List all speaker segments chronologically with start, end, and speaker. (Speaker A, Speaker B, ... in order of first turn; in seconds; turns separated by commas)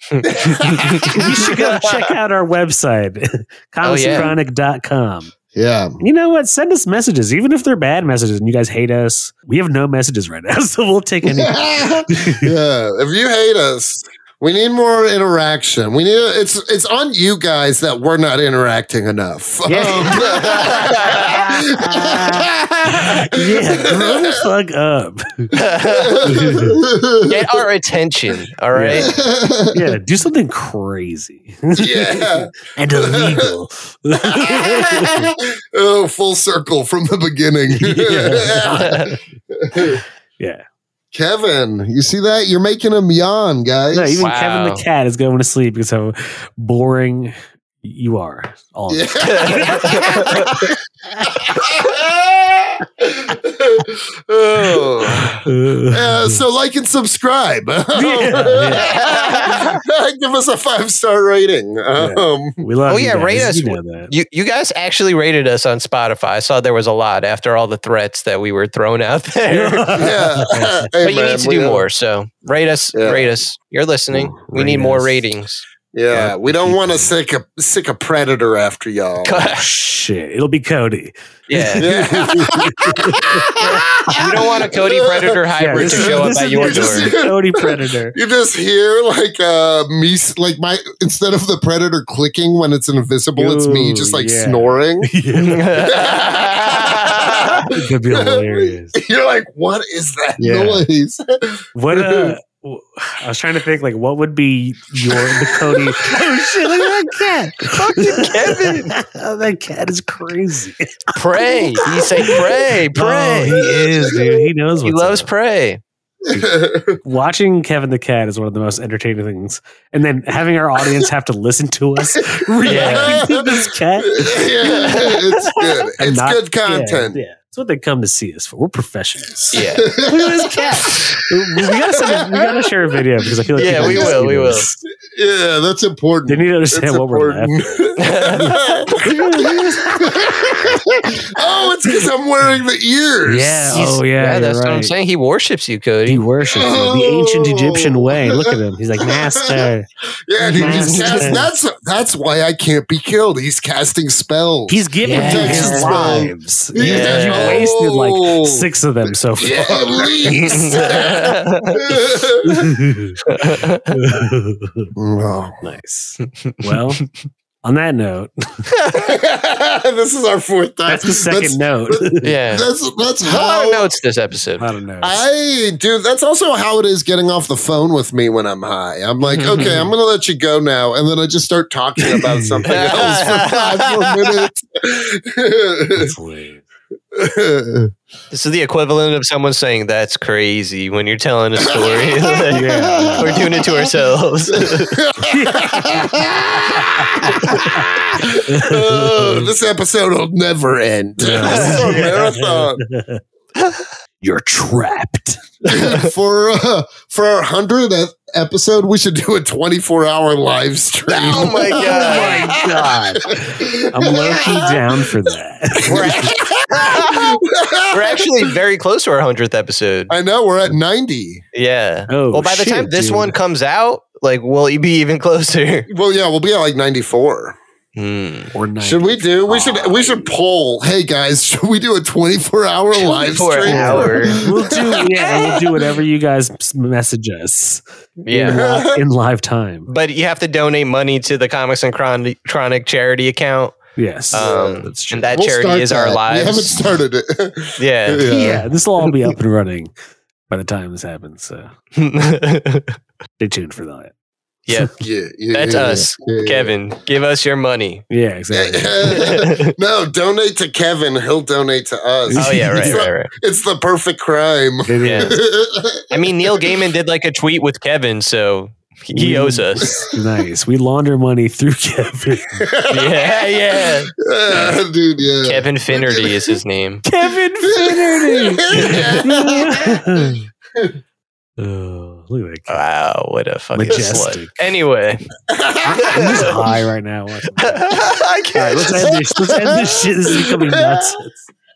Speaker A: 0.1-2.1, Speaker B: 0.2-1.3, Speaker C: 1.1-5.3, Speaker A: 3.8-4.3, Speaker B: 5.5-6.0, Speaker C: 6.0-12.5, Speaker B: 11.2-24.4, Speaker C: 19.7-25.6, Speaker A: 20.2-21.4, Speaker A: 25.5-26.4, Speaker B: 25.9-27.6, Speaker C: 26.2-26.8, Speaker A: 27.3-29.1, Speaker C: 28.7-29.1, Speaker B: 29.0-29.9, Speaker C: 29.7-35.3, Speaker B: 31.8-33.5, Speaker B: 34.2-40.0, Speaker C: 37.7-39.2, Speaker A: 38.6-39.1, Speaker C: 39.7-40.6, Speaker B: 41.1-44.3, Speaker C: 43.9-50.5, Speaker A: 44.2-44.8, Speaker B: 48.9-62.6, Speaker A: 49.2-50.7, Speaker C: 55.3-56.4, Speaker C: 57.9-58.9, Speaker A: 58.7-59.8, Speaker C: 62.0-64.1, Speaker A: 62.9-70.0, Speaker C: 69.5-70.9, Speaker B: 70.0-71.8, Speaker A: 71.0-75.6, Speaker B: 72.9-73.3, Speaker C: 74.1-75.3, Speaker B: 75.9-79.4, Speaker C: 76.1-77.1, Speaker A: 79.2-79.7, Speaker C: 79.5-84.2, Speaker A: 81.5-81.9, Speaker B: 81.8-95.1, Speaker A: 83.6-87.1, Speaker C: 85.6-88.2, Speaker C: 93.3-95.7, Speaker A: 95.3-97.7, Speaker B: 95.8-102.3, Speaker C: 97.7-98.9, Speaker C: 100.4-100.8, Speaker C: 101.7-115.3, Speaker B: 105.0-107.0, Speaker A: 107.7-108.9, Speaker A: 111.1-113.6, Speaker B: 113.5-114.4, Speaker A: 114.8-115.8, Speaker B: 116.2-117.0, Speaker C: 117.0-125.1, Speaker B: 122.1-127.2, Speaker A: 122.7-123.2, Speaker A: 124.6-125.6, Speaker C: 126.0-134.8, Speaker A: 129.5-129.9, Speaker B: 129.7-132.7, Speaker B: 133.2-143.8, Speaker A: 133.5-134.7, Speaker C: 136.3-140.8, Speaker A: 138.0-139.2, Speaker C: 143.2-144.9, Speaker A: 143.7-146.2, Speaker C: 146.1-149.9, Speaker B: 146.5-149.6, Speaker B: 150.3-162.6, Speaker C: 150.4-151.5, Speaker A: 150.6-151.3, Speaker C: 154.7-160.7, Speaker A: 155.0-156.3, Speaker A: 156.8-157.6, Speaker A: 160.4-162.0, Speaker C: 162.4-164.9, Speaker A: 163.2-164.0, Speaker B: 164.9-165.6, Speaker C: 165.6-167.0, Speaker A: 166.2-166.9, Speaker C: 167.6-168.7, Speaker A: 168.7-169.1, Speaker B: 168.9-173.9, Speaker C: 170.8-172.3, Speaker A: 172.2-172.7, Speaker A: 173.2-174.7, Speaker C: 174.6-175.2, Speaker B: 175.0-186.1, Speaker A: 179.2-179.9, Speaker C: 182.3-182.7, Speaker A: 182.7-184.5, Speaker C: 185.9-186.6, Speaker B: 187.1-187.9, Speaker A: 188.3-195.0, Speaker B: 191.6-193.9, Speaker C: 192.5-193.4, Speaker B: 194.5-202.8, Speaker C: 195.3-197.8, Speaker A: 197.5-197.8, Speaker C: 198.5-199.5, Speaker C: 201.2-203.2, Speaker A: 201.4-202.2, Speaker A: 203.6-203.9, Speaker C: 204.2-205.4, Speaker B: 205.6-215.0, Speaker A: 205.7-206.1, Speaker A: 211.1-212.6, Speaker C: 211.4-216.3, Speaker B: 215.8-218.3, Speaker A: 215.9-217.4, Speaker A: 217.9-220.1, Speaker B: 220.1-221.4, Speaker A: 221.5-225.9, Speaker C: 222.1-223.4, Speaker B: 225.9-227.6, Speaker A: 227.9-228.5, Speaker C: 228.5-230.3, Speaker B: 228.8-235.6, Speaker A: 232.9-234.4, Speaker C: 233.7-239.9, Speaker A: 238.2-238.6, Speaker B: 238.5-239.0, Speaker A: 239.9-246.8, Speaker C: 244.0-245.3, Speaker B: 244.3-248.7, Speaker A: 247.8-248.3, Speaker C: 248.3-249.9, Speaker C: 250.5-251.7, Speaker A: 251.9-253.0, Speaker C: 253.4-254.1, Speaker B: 255.0-256.7, Speaker A: 255.5-258.0, Speaker C: 258.1-259.2, Speaker B: 258.5-266.7, Speaker A: 259.0-259.7, Speaker C: 262.3-263.0, Speaker A: 262.3-263.3, Speaker C: 264.9-265.4, Speaker A: 265.0-265.3, Speaker A: 266.1-270.0, Speaker C: 269.1-272.7, Speaker B: 269.8-270.1, Speaker B: 272.6-276.5, Speaker A: 272.9-274.1, Speaker A: 275.4-277.0, Speaker C: 277.0-280.4, Speaker B: 277.6-280.9, Speaker A: 278.7-279.2, Speaker C: 281.6-282.8, Speaker A: 282.7-285.2, Speaker C: 283.7-284.6, Speaker B: 285.5-286.6, Speaker C: 285.8-291.5, Speaker A: 285.9-286.7, Speaker A: 287.6-289.2, Speaker B: 289.0-291.2